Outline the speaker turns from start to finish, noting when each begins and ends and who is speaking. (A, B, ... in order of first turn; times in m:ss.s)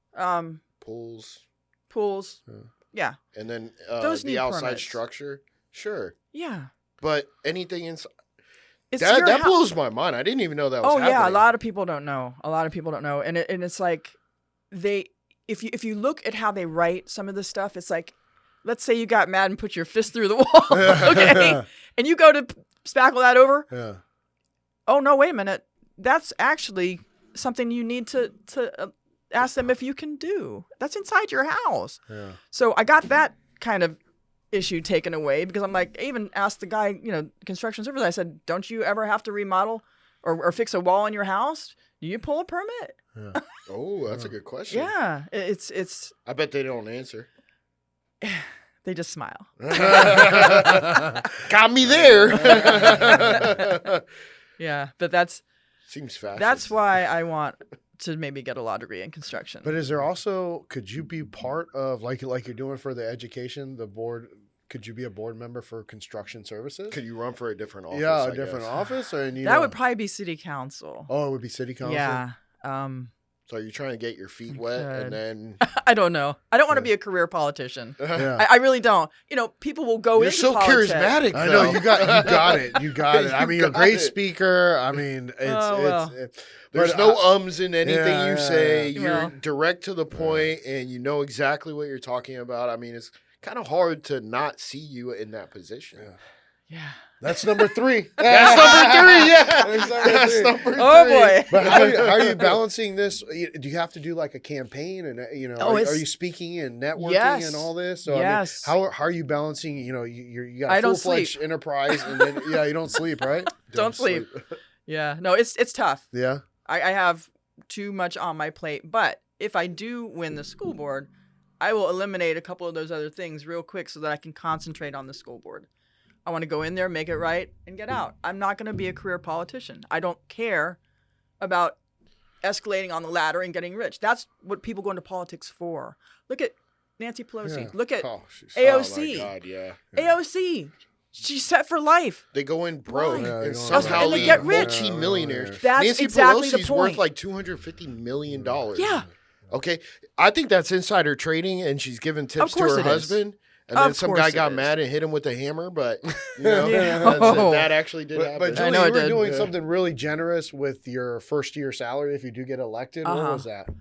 0:00.2-0:00.6 A
0:00.8-0:01.4 B
0:01.9-0:02.4 A
0:02.9-0:03.2 A
0:03.3-0:06.1 B
0:04.0-0:05.0 A
0:06.3-0:06.7 A
0:07.0-0:08.1 B
0:08.9-0:09.6 A
0:09.0-0:11.5 B
0:10.8-0:14.2 A
0:14.7-0:23.7 A
0:20.7-0:21.6 C
0:23.7-0:24.0 C
0:24.9-0:34.0 A
0:32.1-0:32.4 C
0:34.5-0:43.4 A
0:43.7-0:44.9 B
0:44.7-0:46.2 A
0:46.3-0:47.3 B
0:48.2-0:50.3 A
0:49.6-0:54.0 B
0:50.4-0:51.0 C
0:51.9-0:53.5 C
0:52.4-0:53.7 A
0:54.6-0:55.4 A
0:55.9-0:56.7 B
0:56.4-0:59.7 A
0:59.6-1:07.0 C
1:06.9-1:08.9 B
1:07.9-1:09.8 C
1:09.4-1:11.1 A
1:11.1-1:12.2 C
1:11.8-1:13.1 A
1:13.5-1:15.6 B
1:14.5-1:21.2 A
1:18.0-1:18.3 B
1:18.1-1:18.5 C
1:20.2-1:24.2 B
1:21.3-1:27.2 C
1:25.4-1:26.1 A
1:26.7-1:36.0 B
1:27.8-1:28.9 C
1:29.0-1:29.3 A
1:30.1-1:30.5 C
1:36.7-1:38.9 A
1:37.2-1:40.6 C
1:38.2-1:42.6 B
1:40.7-1:41.9 A
1:41.5-1:54.3 C
1:45.6-1:46.0 A
1:47.0-1:48.7 A
1:50.7-1:52.7 A
1:53.6-1:54.3 A
1:54.9-1:56.1 A
1:56.1-1:56.4 C
1:56.6-2:05.7 A
2:06.3-2:10.8 A
2:11.4-2:11.8 A
2:12.4-2:19.3 A
2:17.4-2:18.5 C
2:18.4-2:19.8 B
2:19.9-2:22.2 A
2:22.3-2:39.5 B
2:22.9-2:24.8 A
2:23.1-2:25.6 C
2:25.6-2:27.0 A
2:28.3-2:28.9 C
2:28.8-2:29.1 A
2:32.4-2:33.2 A
2:32.8-2:33.1 C
2:33.7-2:34.7 A
2:36.4-2:37.6 C
2:36.6-2:37.7 A
2:38.2-2:43.7 C
2:38.5-2:39.4 A
2:43.0-2:43.5 A